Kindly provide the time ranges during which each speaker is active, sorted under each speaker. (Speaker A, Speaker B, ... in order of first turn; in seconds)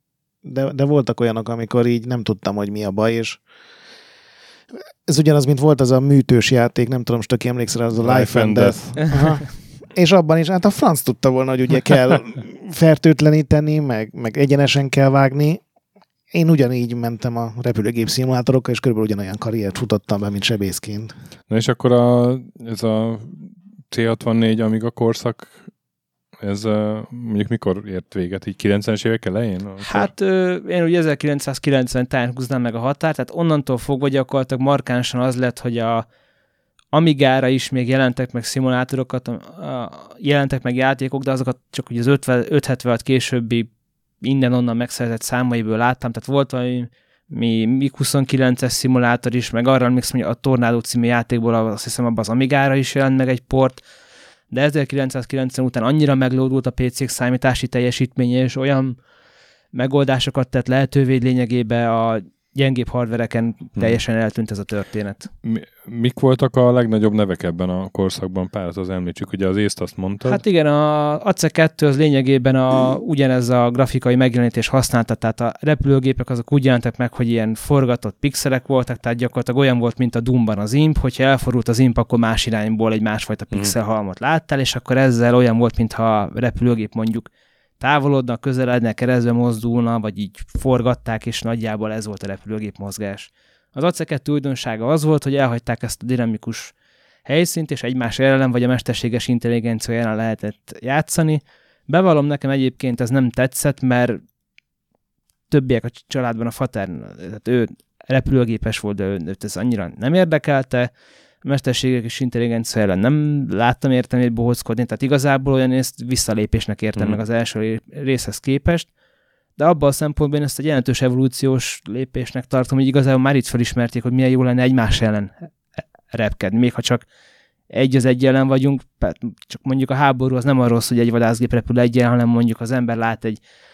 Speaker A: 0.4-3.4, 5.1-15.6, 16.3-21.1
Speaker B: 8.0-9.2, 21.5-25.6, 26.4-30.1, 65.4-70.4, 117.0-117.2
Speaker C: 29.8-36.1, 36.9-43.7, 44.2-53.8, 54.5-59.0, 59.7-65.3, 70.3-87.3, 87.8-96.7, 97.3-104.2, 105.5-110.9, 111.4-118.9, 119.6-125.3, 126.1-127.0, 127.7-133.4